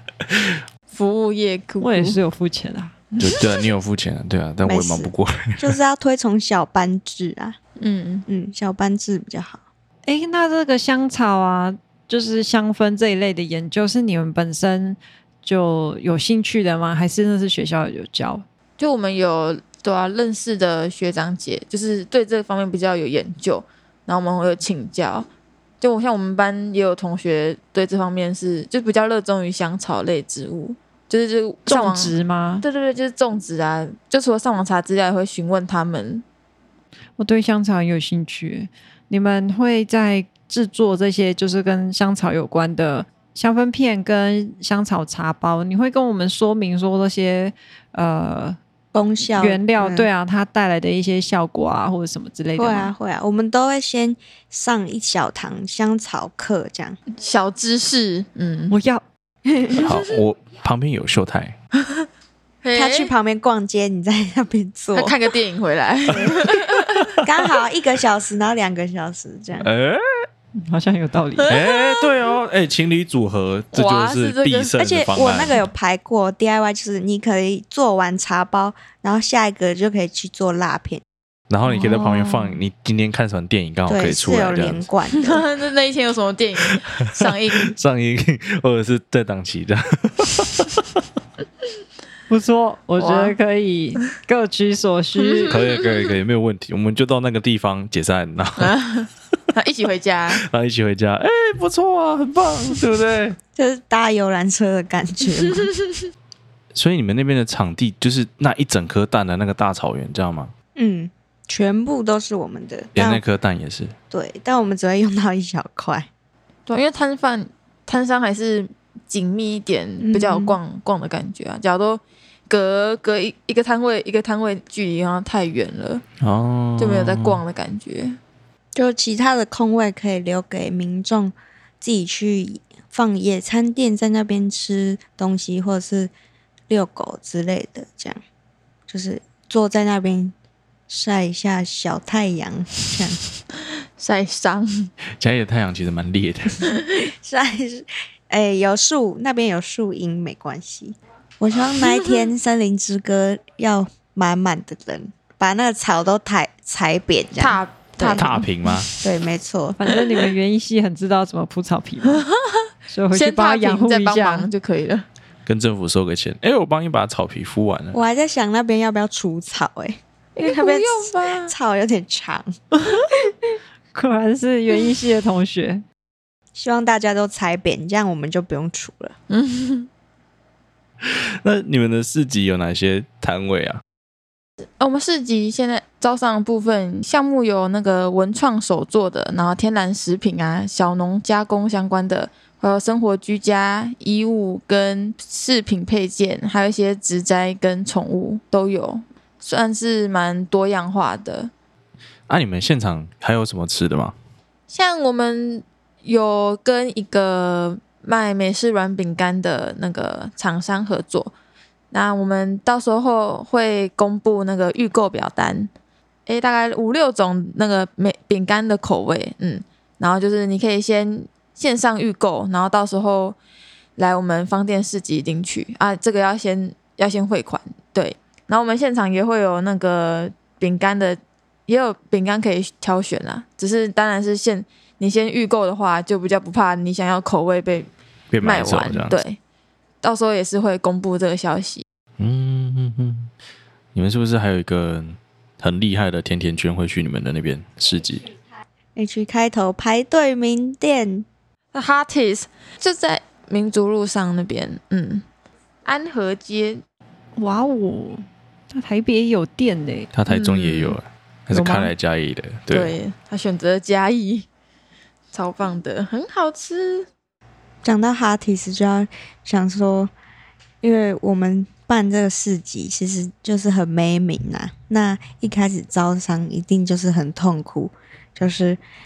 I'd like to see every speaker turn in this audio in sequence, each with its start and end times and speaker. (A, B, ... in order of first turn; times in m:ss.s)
0:00.2-0:00.6 A
0:00.9-0:02.2 B
0:01.8-0:02.9 C
0:03.1-0:03.6 B
0:03.2-0:05.7 A
0:04.6-0:07.6 D
0:07.8-0:08.2 B
0:08.3-0:09.6 D
0:10.0-0:18.4 C
0:18.8-0:25.3 B
0:25.8-0:36.2 B
0:31.7-0:32.6 C
0:37.2-0:48.6 C
0:48.9-0:50.1 D
0:49.4-0:52.9 C
0:52.6-0:57.0 D
0:57.1-0:58.7 B
0:58.7-0:59.0 C
0:59.4-0:59.9 D
0:59.8-1:01.6 A
1:02.6-1:03.1 B
1:02.7-1:05.1 D
1:04.9-1:07.2 B
1:06.1-1:06.5 D
1:06.2-1:07.2 A
1:07.2-1:09.7 D
1:09.6-1:10.3 A
1:10.6-1:11.5 C
1:11.4-1:12.1 B
1:11.5-1:15.6 A
1:13.7-1:14.8 B
1:14.8-1:21.0 D
1:21.5-1:24.8 A
1:21.7-1:22.6 C
1:23.9-1:25.4 D
1:25.2-1:27.8 B
1:26.6-1:30.8 A
1:32.3-1:35.6 C
1:33.0-1:33.3 B
1:35.2-1:36.1 B
1:35.5-1:38.8 A
1:38.6-1:40.4 B
1:40.3-1:43.4 A
1:43.6-1:45.7 D
1:46.7-1:50.5 A
1:50.7-1:53.2 D
1:53.0-1:53.9 A
1:54.1-1:56.1 D
1:56.7-2:06.0 B
2:00.0-2:00.6 D
2:06.2-2:07.4 A
2:06.8-2:08.2 B
2:08.7-2:16.1 D
2:16.7-2:18.2 D
2:18.9-2:20.3 D
2:20.9-2:23.2 D
2:24.0-2:24.9 B
2:25.2-2:26.8 A
2:27.0-2:38.4 D
2:31.8-2:32.3 B
2:37.4-2:39.0 B
2:38.0-2:38.9 A
2:39.0-2:39.8 D
2:39.8-2:42.2 C
2:42.9-2:44.5 C
2:43.1-2:45.0 B
2:45.4-2:48.0 A
2:47.9-2:52.5 D
2:50.4-2:51.5 B
2:52.8-2:53.0 C
2:53.9-2:55.8 C
2:56.6-2:59.1 D
2:59.3-2:59.9 B
3:01.0-3:03.8 A
3:04.8-3:21.5 B
3:22.3-3:24.1 A
3:24.7-3:31.3 B
3:31.9-3:35.7 B
3:36.3-3:43.4 B
3:44.0-3:57.9 B
3:58.3-3:59.2 A
3:58.4-3:59.4 B
4:00.0-4:01.8 B
4:02.2-4:03.3 A
4:03.9-4:08.3 A
4:09.0-4:11.2 D
4:11.7-4:15.2 B
4:15.8-4:16.8 B
4:17.4-4:20.1 C
4:20.1-4:22.9 A
4:20.3-4:21.0 B
4:21.5-4:21.9 C
4:22.7-4:24.4 B
4:25.3-4:27.1 B
4:27.8-4:30.1 D
4:30.8-4:38.8 D